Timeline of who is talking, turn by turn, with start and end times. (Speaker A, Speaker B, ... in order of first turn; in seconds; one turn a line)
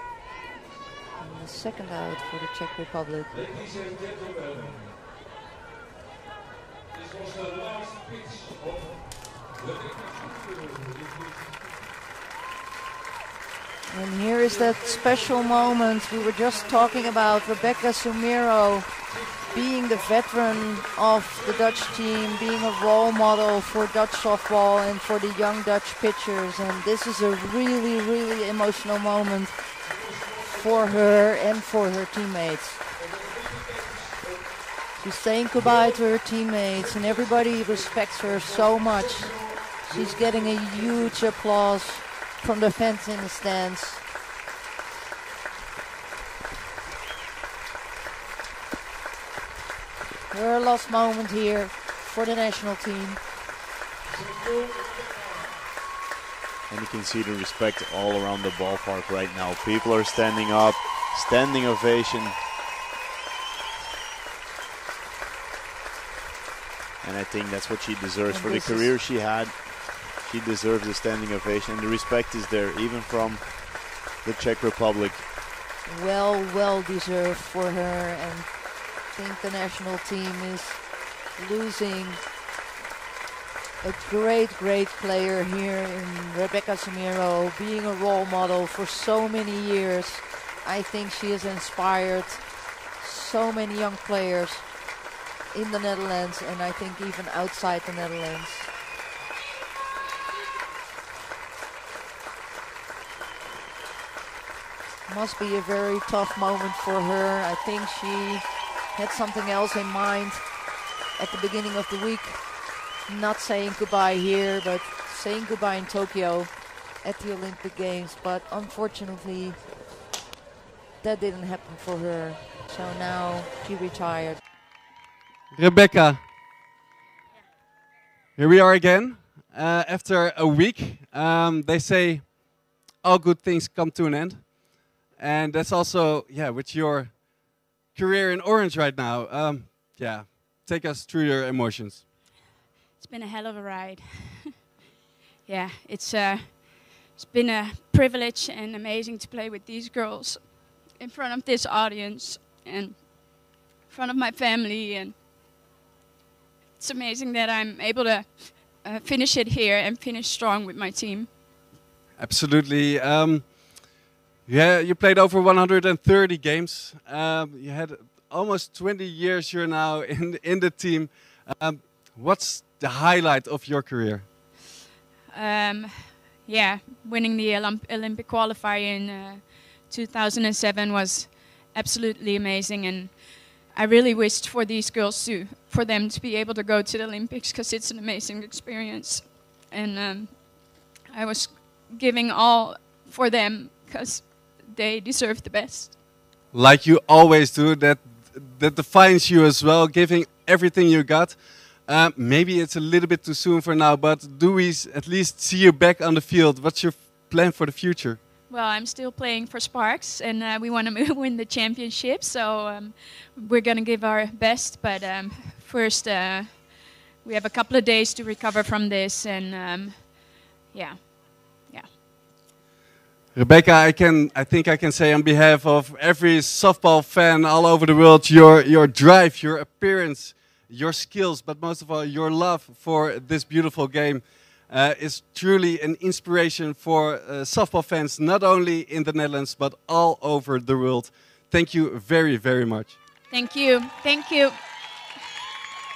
Speaker A: 1.2-3.8
Speaker A: 13.9-32.8
Speaker A: 34.9-44.0
Speaker A: 50.3-53.2
Speaker B: 56.7-62.4
Speaker B: 67.0-75.3
Speaker A: 68.3-68.9
Speaker A: 75.8-82.2
Speaker A: 83.8-94.7
Speaker A: 95.5-98.7
Speaker A: 105.1-110.5
Speaker A: 111.2-119.7
Speaker A: 121.0-124.4
Speaker C: 125.5-126.2
Speaker C: 128.4-142.0
Speaker D: 143.0-144.6
Speaker D: 145.4-155.2
Speaker D: 156.8-161.4
Speaker C: 162.2-163.9
Speaker C: 164.5-174.3
Speaker D: 175.3-196.0
Speaker C: 196.5-208.2
Speaker D: 208.5-221.9
Speaker C: 223.3-243.0
Speaker D: 243.3-244.6